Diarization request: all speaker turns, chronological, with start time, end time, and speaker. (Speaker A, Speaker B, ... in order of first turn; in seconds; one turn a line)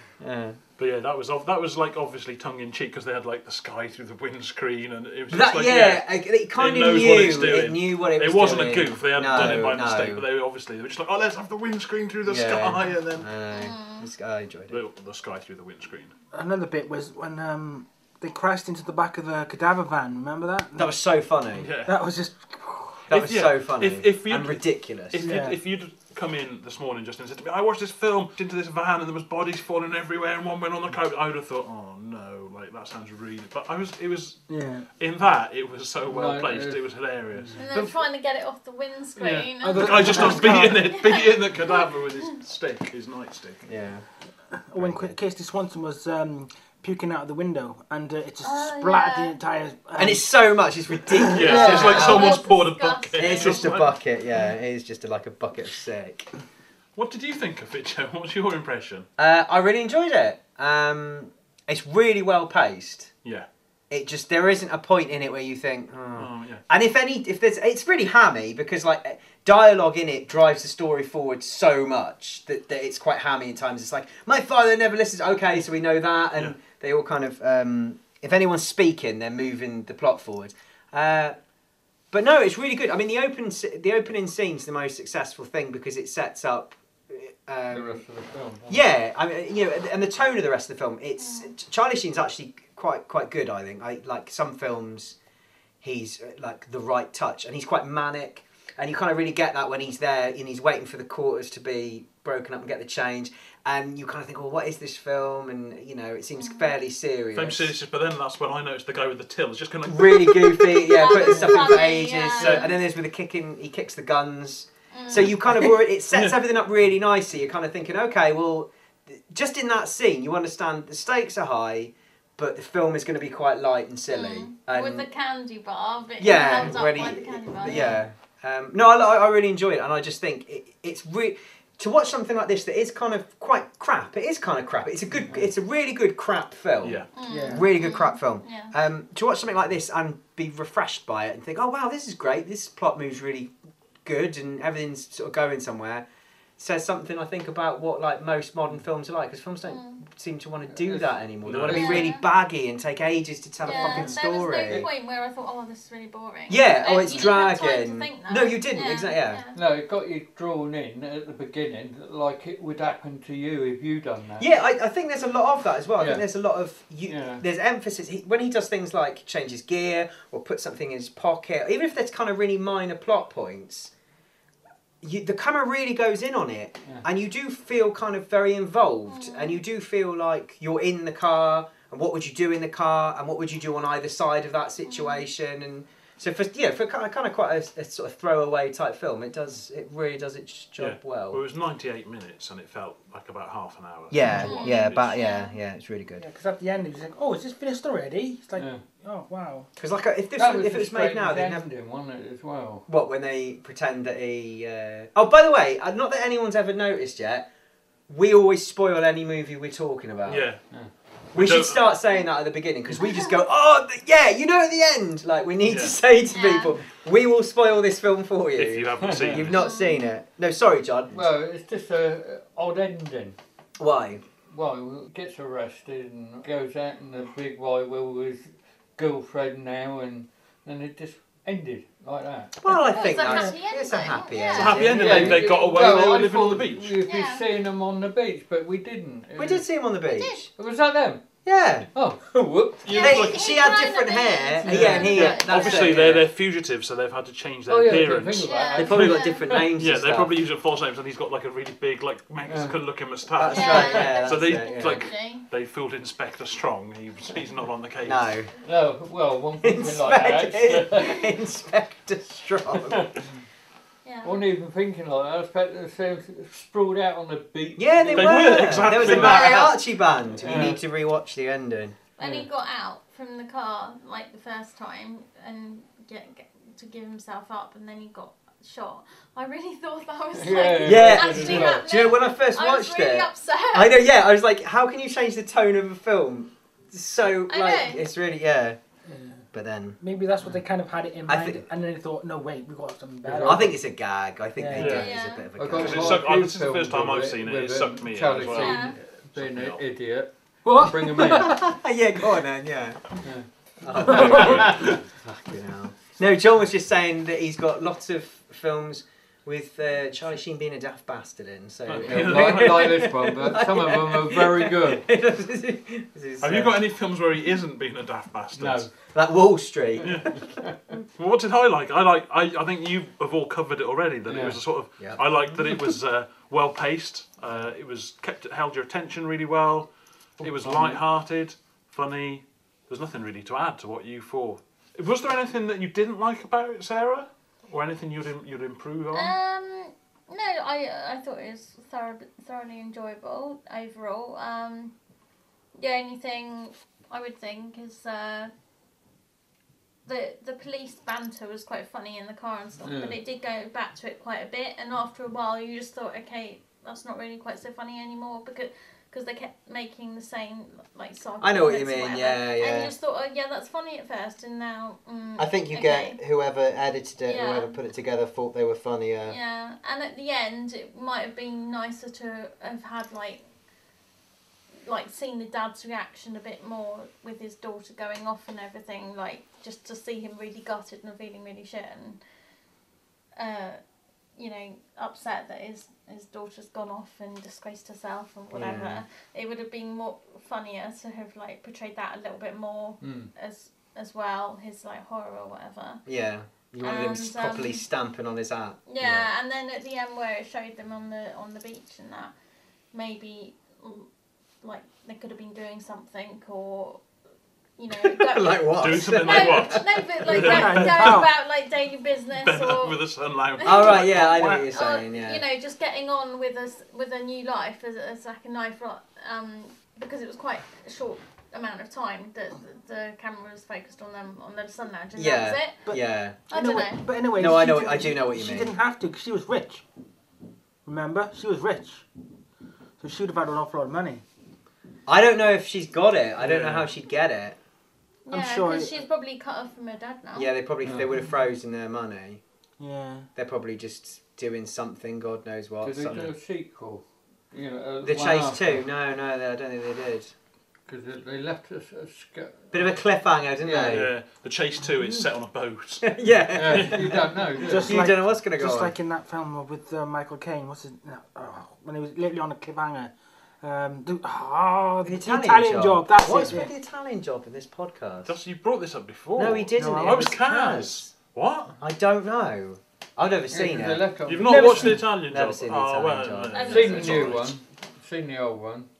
Speaker A: 0.2-0.6
Speaker B: 0.8-13.3
Speaker A: 5.3-10.2
Speaker A: 12.2-14.8
Speaker C: 13.5-14.1
Speaker B: 14.7-16.1
Speaker D: 16.3-21.0
Speaker A: 20.8-21.7
Speaker B: 21.6-22.0
Speaker D: 21.9-23.1
Speaker A: 23.1-25.2
Speaker B: 23.1-34.4
Speaker D: 25.2-25.6
Speaker D: 34.5-34.9
Speaker B: 35.0-37.9
Speaker E: 36.1-36.8
Speaker C: 37.6-41.9
Speaker B: 39.2-43.6
Speaker D: 39.6-40.9
Speaker A: 43.7-44.0
Speaker D: 44.7-50.3
Speaker A: 44.8-45.1
Speaker C: 48.4-49.4
Speaker A: 50.0-52.5
Speaker D: 51.2-51.8
Speaker B: 51.3-54.0
Speaker C: 51.4-53.7
Speaker A: 53.2-56.3
Speaker B: 57.0-59.1
Speaker A: 59.2-63.1
Speaker A: 63.9-81.4
Speaker B: 66.2-66.6
Speaker A: 82.1-88.0
Speaker E: 87.7-88.8
Speaker A: 88.7-95.2
Speaker C: 91.2-91.5
Speaker A: 95.8-107.7
Speaker C: 106.4-106.7
Speaker B: 107.3-110.6
Speaker A: 109.9-125.1
Speaker C: 110.7-112.8
Speaker C: 114.9-115.3
Speaker B: 116.1-116.4
Speaker C: 124.1-128.0
Speaker A: 126.2-143.5
Speaker B: 136.8-137.1
Speaker C: 137.1-138.7
Speaker D: 137.3-137.7
Speaker A: 144.1-146.1
Speaker A: 146.6-154.9
Speaker C: 149.7-150.0
Speaker E: 150.7-152.1
Speaker B: 151.4-152.1
Speaker C: 151.7-152.2
Speaker C: 153.6-159.6
Speaker E: 153.7-154.2
Speaker A: 156.5-159.4
Speaker E: 159.5-164.5
Speaker A: 164.4-173.9
Speaker E: 166.0-166.2
Speaker E: 167.1-167.4
Speaker A: 175.0-191.4
Speaker C: 179.1-179.6
Speaker C: 184.8-185.3
Speaker B: 190.8-195.2
Speaker A: 194.1-196.2
Speaker C: 194.3-195.6
Speaker D: 196.2-199.7
Speaker E: 198.6-198.8
Speaker A: 199.8-201.7
Speaker E: 200.4-202.9
Speaker A: 202.9-207.5
Speaker A: 208.1-210.5
Speaker B: 210.3-210.6
Speaker A: 211.3-221.3
Speaker B: 211.3-211.9
Speaker B: 215.7-216.0
Speaker C: 216.3-216.8
Speaker B: 218.6-219.7
Speaker E: 219.0-219.5
Speaker C: 219.5-220.1
Speaker E: 221.1-223.4
Speaker A: 223.8-224.2
Speaker E: 224.5-232.6
Speaker A: 232.6-235.8
Speaker C: 232.7-234.8
Speaker B: 234.6-237.0
Speaker E: 234.7-239.7
Speaker C: 237.1-237.4
Speaker A: 239.4-240.5
Speaker C: 240.2-240.4
Speaker E: 240.6-241.2
Speaker A: 241.4-241.9
Speaker E: 241.9-243.1
Speaker B: 242.8-243.4
Speaker C: 242.9-245.9
Speaker A: 243.0-246.3
Speaker E: 244.7-245.2
Speaker B: 244.7-258.3
Speaker E: 247.7-249.7
Speaker C: 248.4-249.4
Speaker A: 248.8-250.3
Speaker E: 252.5-252.8
Speaker A: 253.3-255.0
Speaker C: 253.5-255.5
Speaker A: 258.1-258.5
Speaker E: 258.6-261.3
Speaker A: 259.6-263.1
Speaker E: 262.8-263.1
Speaker C: 264.1-264.4
Speaker E: 264.2-269.7
Speaker A: 267.8-272.0
Speaker B: 268.1-269.8
Speaker E: 270.3-270.8
Speaker C: 272.2-284.1
Speaker E: 272.2-272.5
Speaker E: 280.3-282.1
Speaker A: 280.8-288.8
Speaker C: 287.5-288.1
Speaker A: 289.5-290.0
Speaker D: 290.0-293.8
Speaker A: 291.3-291.6
Speaker E: 293.2-293.8
Speaker A: 293.4-296.2
Speaker D: 294.6-295.0
Speaker B: 294.8-295.1
Speaker C: 294.9-295.5
Speaker E: 295.6-301.7
Speaker B: 295.7-299.8
Speaker C: 298.5-298.9
Speaker D: 300.8-301.4
Speaker A: 301.2-303.2
Speaker E: 303.2-305.0
Speaker A: 303.8-316.8
Speaker B: 304.0-305.0
Speaker B: 311.9-313.0
Speaker E: 312.1-315.1
Speaker B: 316.4-318.9
Speaker E: 318.6-318.9
Speaker A: 319.1-320.5
Speaker B: 320.0-320.3
Speaker B: 321.2-329.9
Speaker E: 324.3-324.6
Speaker B: 330.4-339.3
Speaker E: 330.4-331.0
Speaker C: 339.1-344.9
Speaker C: 345.8-348.5
Speaker C: 350.1-366.2
Speaker E: 352.8-353.2
Speaker A: 361.4-362.9
Speaker A: 365.4-369.4
Speaker C: 367.2-367.8
Speaker C: 369.3-373.4
Speaker C: 374.9-382.2
Speaker C: 383.4-383.8
Speaker C: 384.4-396.0
Speaker A: 388.5-389.0
Speaker E: 393.0-393.3
Speaker A: 396.1-399.3
Speaker C: 396.8-397.8
Speaker C: 398.9-402.3
Speaker C: 402.9-404.1
Speaker C: 404.6-407.0
Speaker C: 407.8-413.0
Speaker A: 407.9-410.0
Speaker B: 408.8-411.3
Speaker D: 410.3-411.3
Speaker B: 412.3-414.3
Speaker C: 413.6-425.9
Speaker A: 413.6-415.4
Speaker D: 414.4-414.6
Speaker A: 425.1-426.4
Speaker D: 425.9-429.8
Speaker C: 426.5-427.1
Speaker A: 427.4-428.7
Speaker D: 430.9-432.1
Speaker D: 433.0-434.2
Speaker A: 435.1-437.6
Speaker B: 436.4-436.9
Speaker C: 438.3-440.5
Speaker D: 438.3-439.0
Speaker A: 440.4-442.4
Speaker E: 440.8-441.2
Speaker D: 442.8-443.3
Speaker A: 443.4-446.3
Speaker E: 445.8-448.9
Speaker B: 446.1-446.3
Speaker A: 448.0-450.3
Speaker E: 450.9-453.0
Speaker A: 452.7-454.1
Speaker E: 453.6-454.1
Speaker B: 453.8-456.1
Speaker A: 456.0-458.9
Speaker E: 456.5-458.1
Speaker B: 456.7-457.0
Speaker D: 457.6-466.7
Speaker A: 465.1-468.4
Speaker B: 468.3-471.8
Speaker A: 469.4-471.1
Speaker D: 469.8-470.4
Speaker A: 471.8-474.1
Speaker E: 473.5-475.0
Speaker B: 474.3-477.5
Speaker D: 474.5-475.0
Speaker A: 475.1-477.5
Speaker C: 476.5-477.2
Speaker E: 476.6-478.9